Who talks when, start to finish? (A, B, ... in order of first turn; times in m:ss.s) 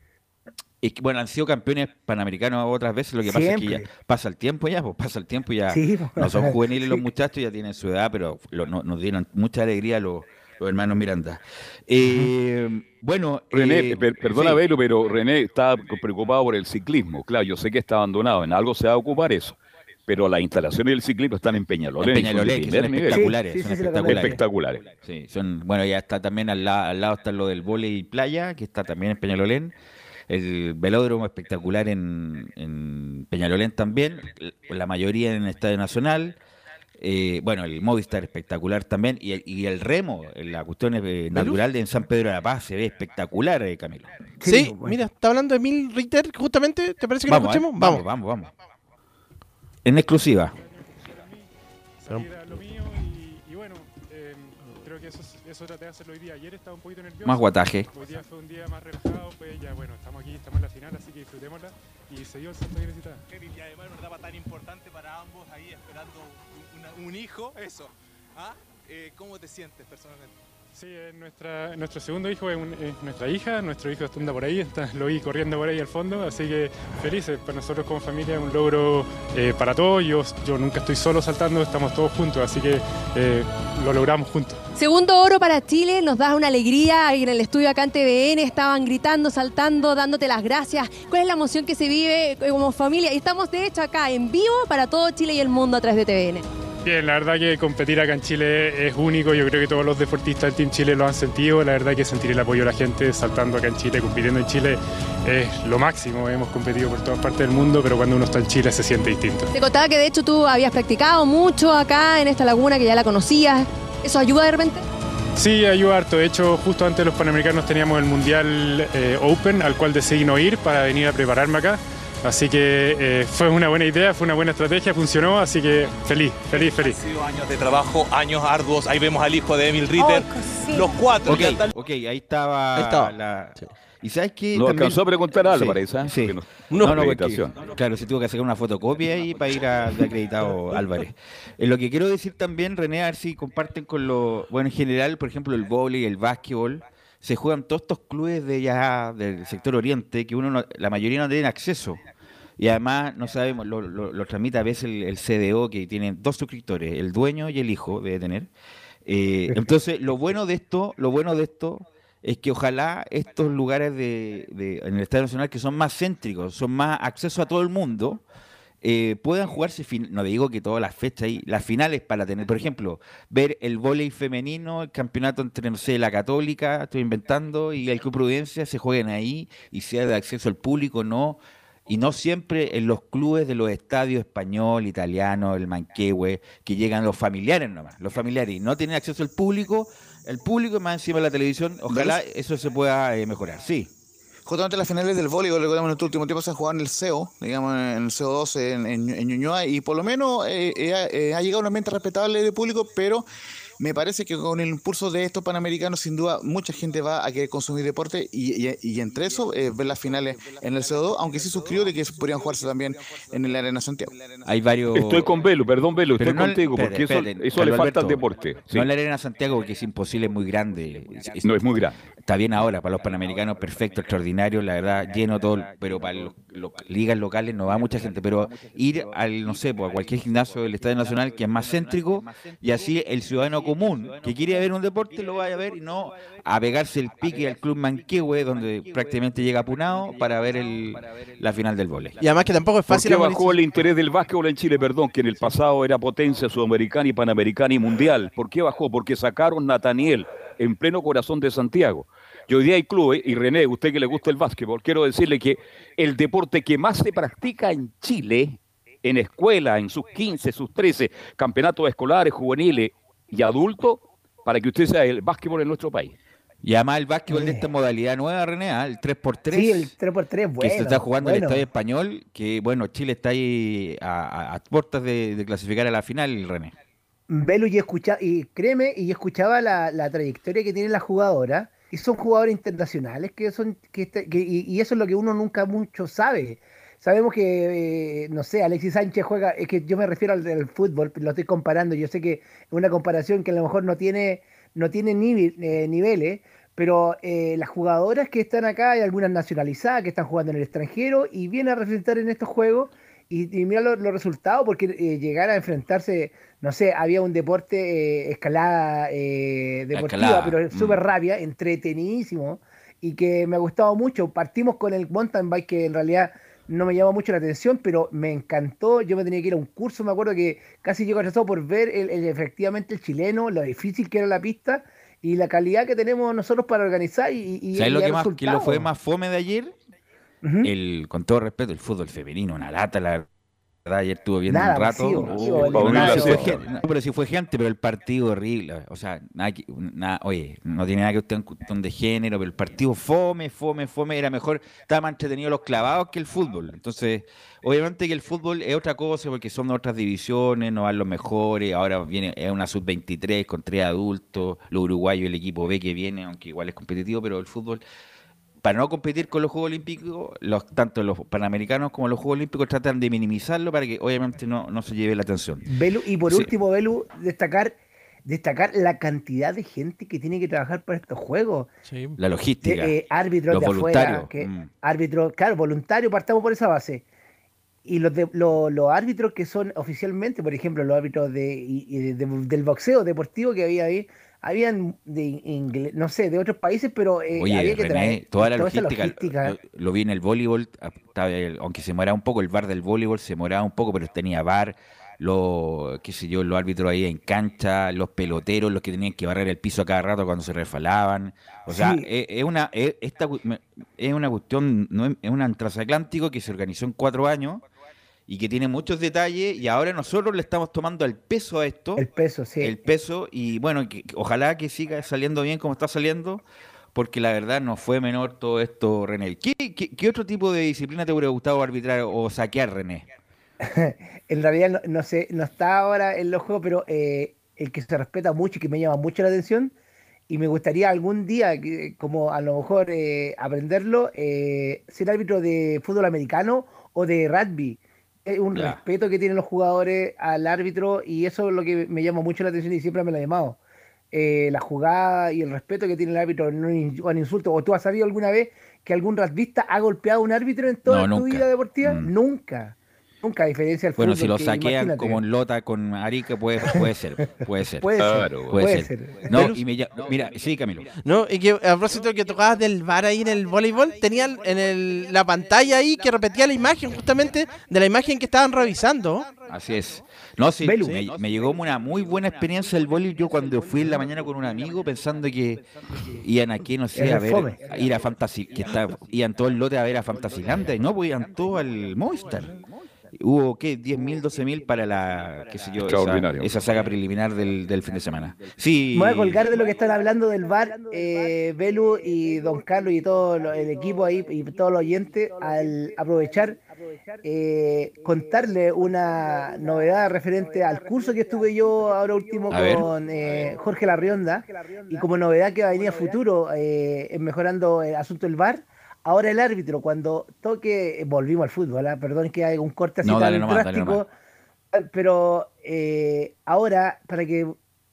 0:00.8-0:14.6 A
0:03.2-0:03.9 B
0:05.7-0:07.0 B
0:13.5-0:23.3 C
0:22.0-0:24.4 A
0:23.1-0:24.4 B
0:24.0-0:24.8 C
0:25.0-0:29.7 A
0:30.3-0:36.4 A
0:37.0-0:44.1 A
0:44.4-0:45.0 B
0:44.5-0:48.0 D
0:47.3-0:48.5 A
0:49.8-0:50.5 A
0:51.1-0:51.4 E
0:52.0-1:03.2 E
0:57.2-0:57.9 A
1:10.8-1:24.6 E
1:24.8-1:36.4 F
1:36.8-1:49.5 E
1:49.5-1:54.8 F
1:55.4-2:07.0 E
2:06.5-2:11.7 G
2:10.5-2:10.8 F
2:11.3-2:32.0 A
2:12.8-2:13.7 D
2:14.6-2:17.5 C
2:16.7-2:17.0 D
2:32.6-2:38.5 A
2:39.1-2:48.2 A
2:48.8-3:13.9 A
3:11.9-3:12.2 H
3:14.5-3:23.3 H
3:23.8-3:34.2 H
3:34.4-3:35.3 A
3:34.9-3:38.9 C
3:36.2-3:41.5 A
3:41.4-3:42.0 C
3:42.2-4:02.2 A
4:02.2-4:03.6 D
4:02.9-4:26.1 C
4:26.6-4:29.9 A
4:27.3-4:27.7 B
4:29.5-4:31.6 B
4:30.6-4:36.7 A
4:37.3-5:28.9 B
5:09.9-5:11.0 A
5:27.7-5:29.7 A
5:30.4-5:30.7 B
5:30.6-5:33.3 A
5:33.8-5:57.8 A
5:34.5-5:36.6 B
5:35.3-5:36.6 C
5:58.6-6:05.7 A
6:05.7-6:11.7 B
6:11.9-6:12.2 D
6:12.2-6:13.0 A
6:12.6-6:17.0 B
6:13.5-6:14.7 A
6:17.8-6:29.6 B
6:27.3-6:47.6 A
6:41.7-6:42.1 B
6:48.3-6:52.0 A
6:52.0-6:52.8 B
6:52.6-6:56.4 A
6:56.9-7:03.1 A
7:03.6-7:09.7 B
7:10.3-7:23.6 B
7:18.5-7:18.8 A
7:24.1-7:35.2 B
7:30.9-7:32.1 A
7:34.0-7:40.9 A
7:37.8-7:39.5 B
7:38.0-7:38.6 C
7:41.0-7:49.3 D
7:49.5-7:55.6 A
7:50.6-7:51.1 B
7:56.2-8:02.6 A
7:57.0-7:57.6 B
8:03.2-8:09.5 A
8:05.8-8:06.5 C
8:08.9-8:16.6 B
8:17.2-8:34.1 B
8:22.5-8:22.9 A
8:33.0-8:34.0 A
8:34.7-8:37.6 B